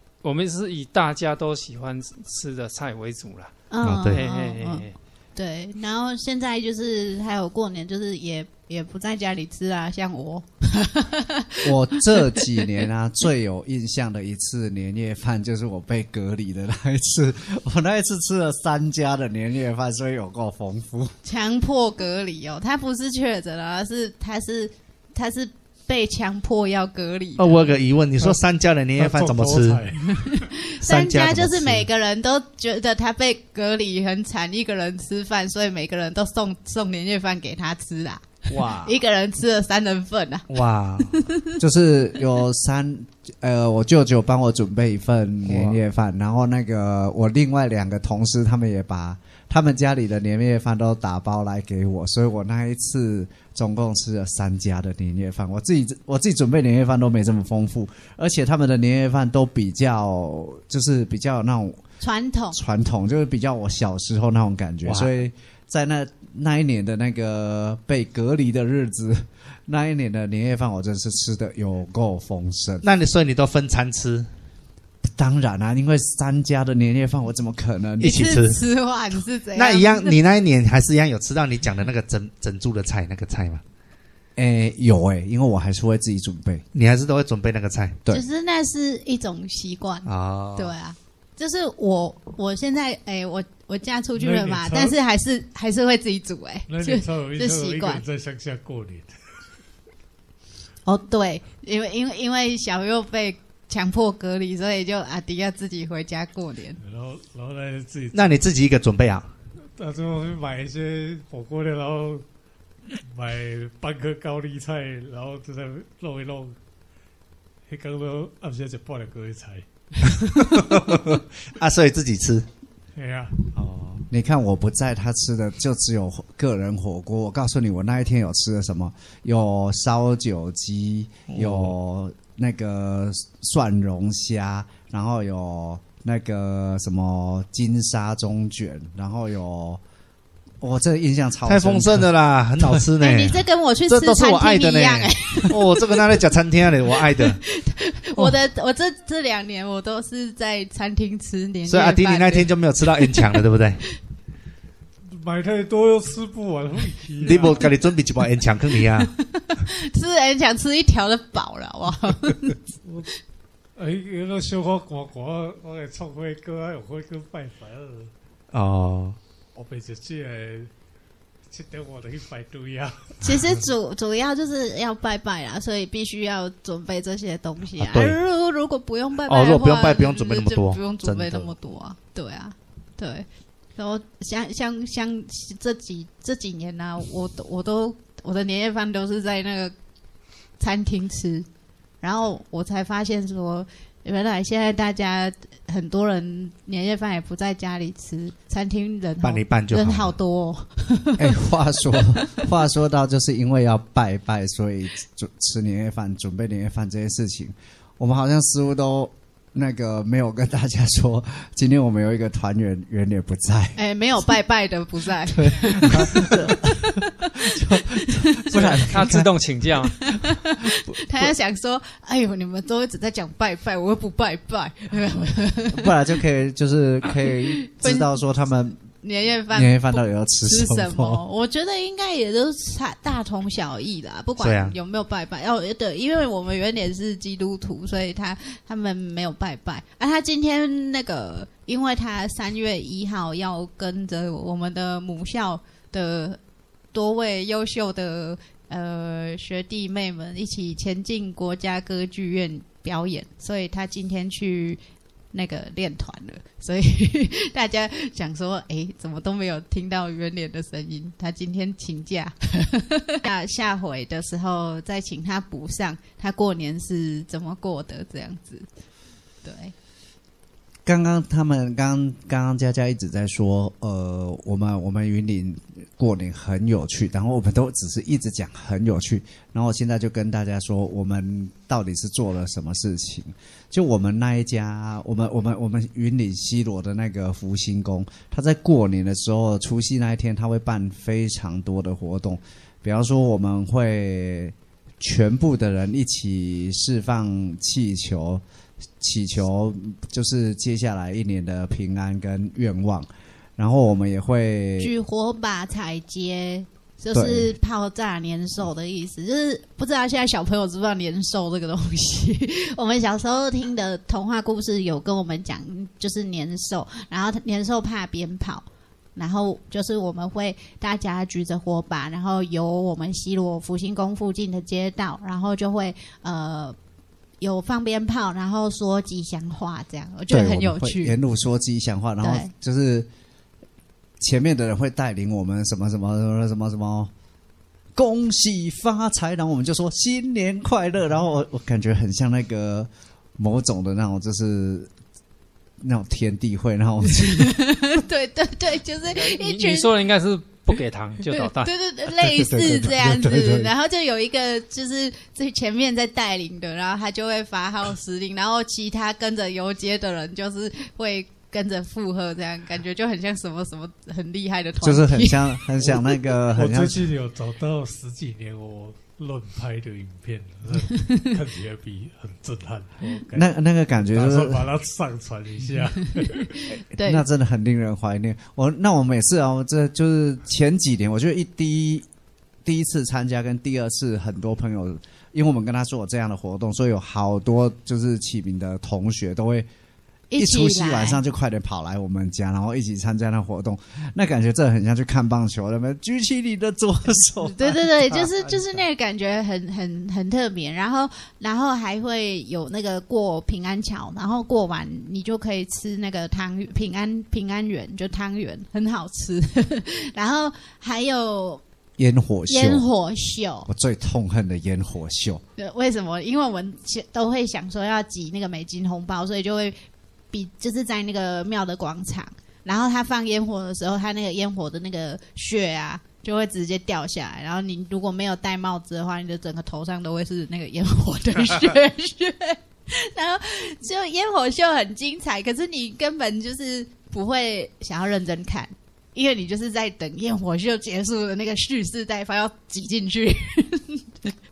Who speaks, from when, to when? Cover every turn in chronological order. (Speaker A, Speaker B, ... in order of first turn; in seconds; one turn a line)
Speaker A: 0.2-5.0
Speaker B: 3.7-12.7
Speaker C: 3.8-4.2
Speaker D: 11.6-21.1
Speaker B: 21.2-27.7
Speaker C: 27.4-29.9
Speaker E: 29.0-30.5
Speaker B: 30.1-41.6
Speaker C: 30.8-31.9
Speaker C: 38.5-39.0
Speaker C: 40.5-41.2
Speaker D: 41.6-61.8
Speaker C: 45.5-45.8
Speaker B: 62.0-62.6
Speaker D: 62.5-72.9
Speaker C: 64.8-65.1
Speaker C: 72.8-74.3
Speaker D: 75.0-78.2
Speaker B: 78.0-80.2
Speaker C: 78.0-78.6
Speaker C: 79.5-83.6
Speaker D: 84.4-86.7
Speaker C: 86.7-88.0
Speaker B: 88.1-98.0
Speaker C: 90.0-90.7
Speaker E: 94.2-95.0
Speaker E: 96.7-99.2
Speaker B: 100.9-106.8
Speaker E: 106.8-108.4
Speaker C: 108.1-109.3
Speaker E: 109.8-112.2
Speaker E: 113.0-116.6
Speaker E: 117.7-120.8
Speaker C: 120.2-122.5
Speaker E: 123.0-123.5
Speaker C: 123.5-124.1
Speaker D: 124.1-139.8
Speaker C: 131.3-131.7
Speaker D: 140.6-142.8
Speaker C: 141.4-147.4
Speaker B: 143.0-146.2
Speaker B: 146.9-153.4
Speaker C: 151.7-153.8
Speaker E: 155.1-157.7
Speaker C: 157.2-159.1
Speaker B: 158.9-162.6
Speaker E: 162.8-163.1
Speaker E: 163.8-168.1
Speaker C: 168.5-169.2
Speaker E: 169.6-170.7
Speaker E: 171.5-173.4
Speaker B: 173.2-189.7
Speaker C: 177.8-178.2
Speaker C: 179.3-181.5
Speaker B: 190.6-191.5
Speaker B: 192.0-202.4
Speaker C: 199.2-200.2
Speaker D: 201.2-213.8
Speaker B: 213.8-218.8
Speaker D: 215.3-219.3
Speaker A: 218.5-220.0
Speaker B: 219.8-225.9
Speaker D: 225.7-228.8
Speaker B: 227.7-228.2
Speaker B: 229.0-246.4
Speaker D: 229.5-231.2
Speaker C: 234.4-234.8
Speaker B: 246.9-254.8
Speaker B: 255.3-268.7
Speaker B: 269.4-269.7
Speaker D: 270.9-298.4
Speaker D: 299.0-304.9
Speaker B: 304.8-326.8
Speaker D: 307.1-307.5
Speaker B: 327.4-331.2
Speaker D: 330.3-333.1
Speaker B: 332.2-332.5
Speaker D: 334.2-337.1
Speaker D: 337.9-344.9
Speaker D: 345.8-347.6
Speaker B: 347.1-349.9
Speaker A: 349.1-351.7
Speaker B: 351.4-365.6
Speaker D: 352.2-353.7
Speaker D: 364.8-367.1
Speaker E: 366.5-373.5
Speaker D: 373.3-374.7
Speaker E: 374.1-376.5
Speaker B: 376.3-377.2
Speaker D: 377.0-382.1
Speaker D: 382.6-389.7
Speaker B: 390.3-391.2
Speaker D: 390.4-398.3
Speaker B: 397.4-411.6
Speaker D: 412.0-412.9
Speaker B: 412.5-413.7
Speaker D: 413.7-415.4
Speaker B: 415.6-419.8
Speaker B: 420.3-444.3